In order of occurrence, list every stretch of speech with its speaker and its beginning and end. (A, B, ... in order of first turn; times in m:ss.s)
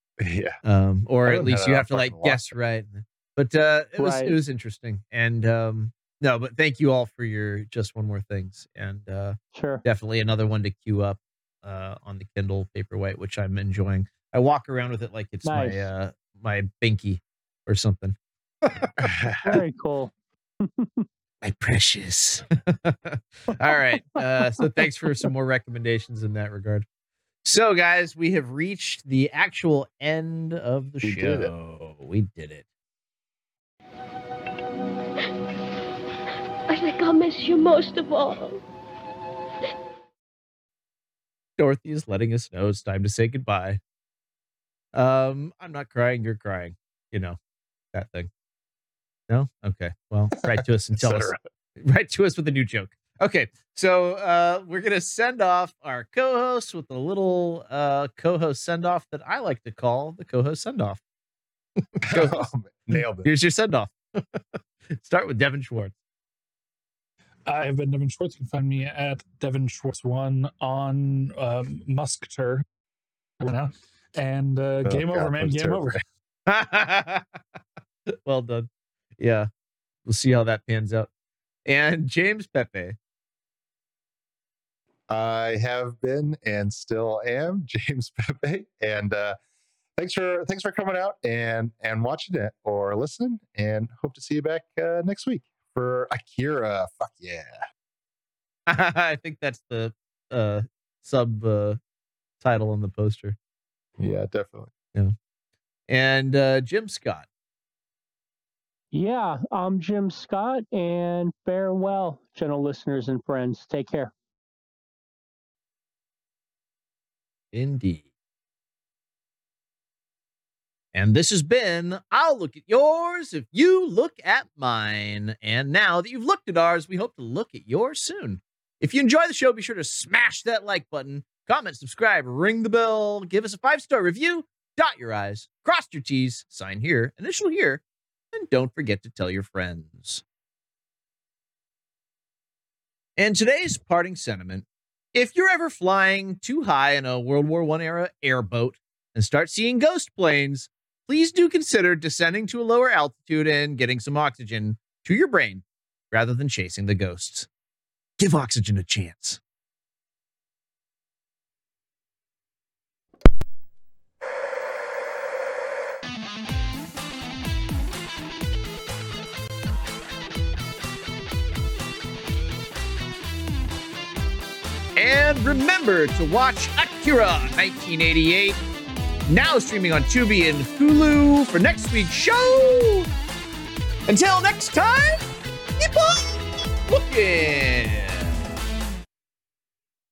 0:00.2-0:00.6 A
0:00.6-0:18.9 B
0:01.2-0:02.6 A
0:04.0-0:04.3 C
0:09.5-0:09.8 C
0:15.4-0:15.9 C
0:19.0-0:19.6 A
0:19.4-0:21.0 C
0:21.4-0:26.8 B
0:27.4-0:32.6 B
0:31.0-0:31.5 A
0:36.7-0:38.6 D
0:41.6-0:43.8 B
0:44.9-0:47.4 B
0:47.9-0:48.3 B
0:49.3-1:01.0 B
0:50.6-0:51.4 A
1:01.8-1:02.4 B
1:02.1-1:03.3 A
1:03.2-1:04.4 B
1:04.9-1:05.9 B
1:07.4-1:12.6 E
1:13.4-1:16.0 E
1:14.8-1:16.0 A
1:16.5-1:17.2 B
1:18.2-1:19.5 B
1:20.0-1:21.1 B
1:21.6-1:22.9 B
1:25.1-1:29.4 A
1:30.0-1:37.6 A
1:38.7-1:41.8 B
1:42.4-1:43.4 B
1:44.0-1:44.7 A
1:45.9-1:47.2 B
1:48.9-1:54.1 C
1:57.5-1:58.0 B
2:00.9-2:17.8 B
2:18.3-2:20.2 B
2:23.2-2:37.5 B
2:38.2-2:39.4 B
2:54.9-2:58.6 B
2:59.3-3:03.1 B
3:04.1-3:05.2 B
3:05.8-3:08.3 B